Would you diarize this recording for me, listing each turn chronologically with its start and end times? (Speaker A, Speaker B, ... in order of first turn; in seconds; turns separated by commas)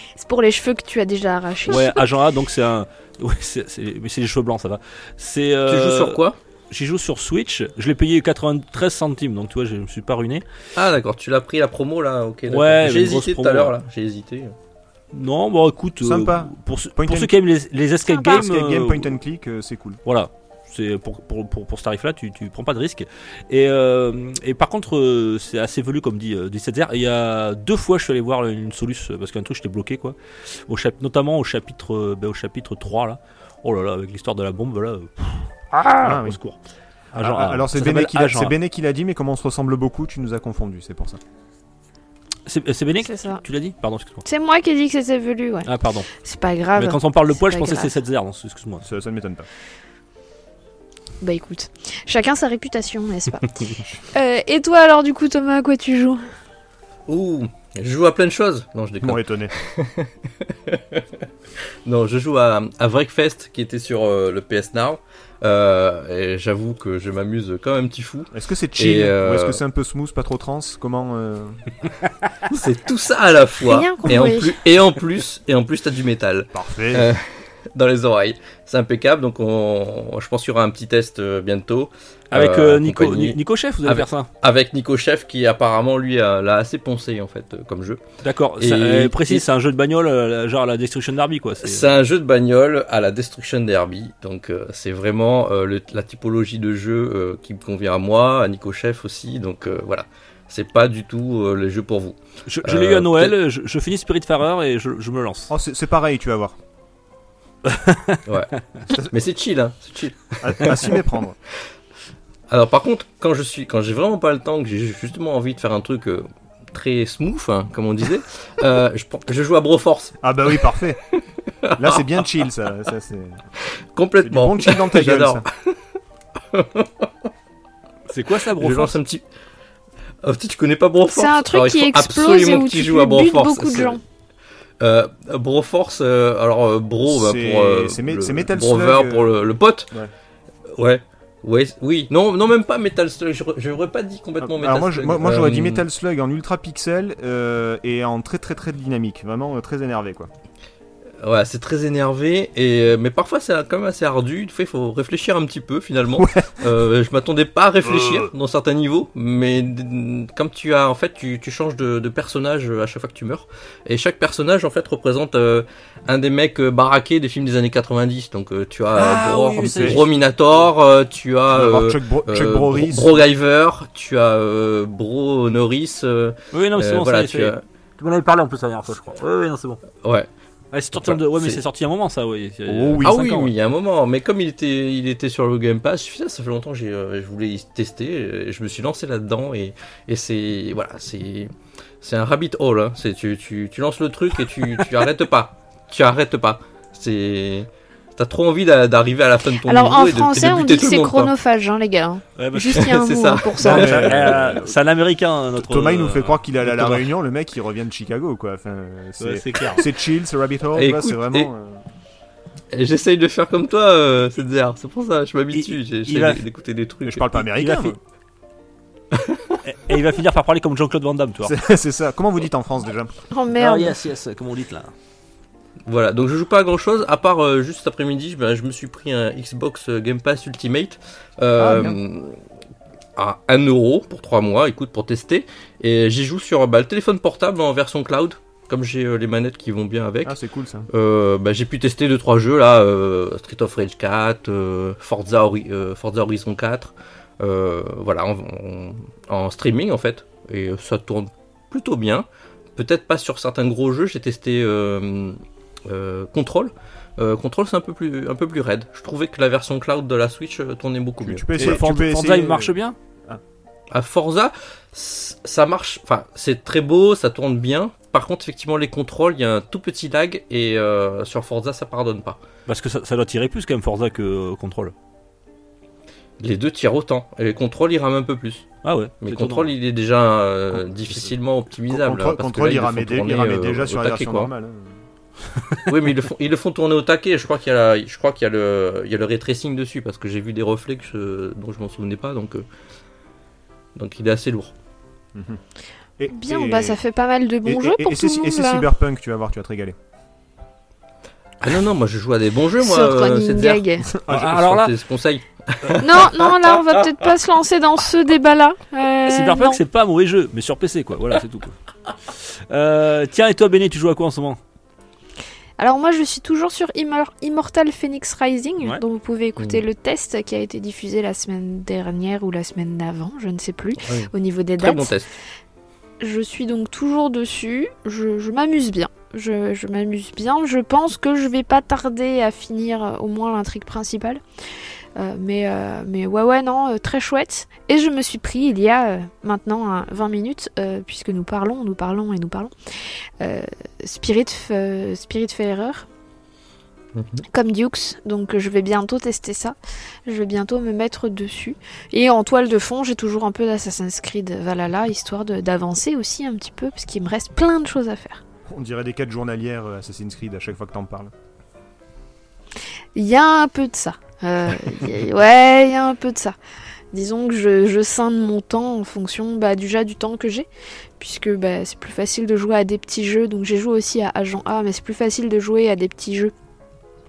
Speaker A: 0.1-2.0, Speaker B: 1.7-6.2, Speaker C: 5.7-6.4, Speaker B: 6.7-10.4, Speaker C: 10.7-14.5, Speaker B: 12.5-13.7, Speaker B: 15.1-19.1, Speaker D: 16.0-17.3, Speaker A: 18.1-18.4, Speaker D: 18.2-20.0, Speaker B: 20.1-36.6, Speaker D: 36.0-36.4, Speaker D: 37.1-41.2, Speaker B: 37.1-38.5, Speaker B: 42.5-44.2, Speaker A: 43.0-43.4, Speaker A: 44.2-47.9, Speaker B: 45.6-46.1, Speaker B: 46.8-48.9, Speaker D: 48.8-49.5, Speaker A: 51.2-56.2, Speaker C: 57.1-61.1, Speaker D: 59.0-59.5, Speaker C: 61.9-69.6, Speaker D: 68.3-71.6, Speaker C: 72.5-88.0, Speaker A: 73.6-74.5, Speaker D: 76.5-77.1, Speaker B: 82.3-84.3, Speaker B: 88.2-91.9, Speaker C: 88.6-89.4, Speaker C: 91.6-103.3, Speaker B: 102.5-105.5, Speaker D: 105.5-106.5, Speaker B: 107.7-108.2, Speaker C: 108.2-111.0, Speaker D: 110.4-111.4, Speaker C: 112.5-122.2, Speaker D: 120.2-121.0, Speaker D: 121.8-123.4, Speaker C: 123.9-125.8, Speaker D: 124.2-125.5, Speaker C: 126.5-127.1, Speaker B: 128.1-129.0, Speaker C: 128.6-129.2, Speaker C: 130.2-134.0, Speaker A: 131.1-134.0, Speaker C: 134.8-139.9, Speaker D: 137.1-139.3, Speaker C: 140.7-145.8, Speaker D: 144.4-150.3, Speaker C: 151.2-177.6, Speaker D: 156.2-156.7, Speaker D: 157.8-158.3, Speaker B: 168.9-170.1, Speaker D: 169.6-170.0, Speaker D: 171.5-173.2, Speaker B: 176.5-179.8, Speaker C: 180.0-180.3, Speaker B: 180.7-183.5, Speaker C: 180.9-181.6, Speaker D: 182.7-183.1, Speaker C: 183.0-201.3, Speaker A: 199.6-204.0, Speaker B: 202.4-203.0, Speaker C: 202.8-204.6, Speaker D: 203.6-204.8, Speaker B: 203.6-207.1, Speaker D: 205.6-211.8, Speaker B: 209.2-209.8, Speaker C: 210.7-211.5, Speaker C: 212.7-217.3, Speaker B: 215.5-216.4, Speaker D: 217.0-218.0, Speaker B: 217.4-217.9, Speaker C: 219.1-219.6, Speaker B: 219.6-221.6, Speaker D: 221.4-223.1, Speaker A: 223.3-223.9, Speaker B: 223.5-224.9, Speaker C: 225.8-232.4, Speaker D: 231.6-232.0, Speaker C: 233.2-240.4, Speaker D: 240.2-240.9, Speaker C: 240.9-261.8, Speaker D: 261.2-262.7, Speaker B: 261.6-262.9, Speaker C: 263.9-272.4, Speaker B: 272.7-274.9, Speaker C: 276.4-278.6, Speaker B: 278.8-279.7, Speaker C: 279.2-284.5, Speaker D: 281.9-284.9, Speaker C: 285.9-292.6, Speaker C: 293.9-294.7, Speaker D: 295.3-295.6, Speaker D: 296.2-297.0, Speaker A: 296.3-298.9, Speaker D: 297.6-299.9, Speaker C: 301.6-306.7, Speaker A: 302.8-304.1, Speaker D: 304.1-304.6, Speaker B: 304.3-304.9, Speaker A: 306.0-309.8, Speaker B: 309.3-311.8, Speaker B: 312.6-314.6, Speaker A: 315.8-325.1, Speaker C: 324.0-325.3, Speaker A: 326.2-334.4, Speaker A: 335.1-342.7, Speaker A: 343.4-346.1, Speaker C: 347.1-347.4, Speaker A: 347.5-358.4, Speaker D: 358.7-361.3, Speaker A: 363.1-366.6, Speaker A: 367.1-370.7, Speaker A: 371.2-376.5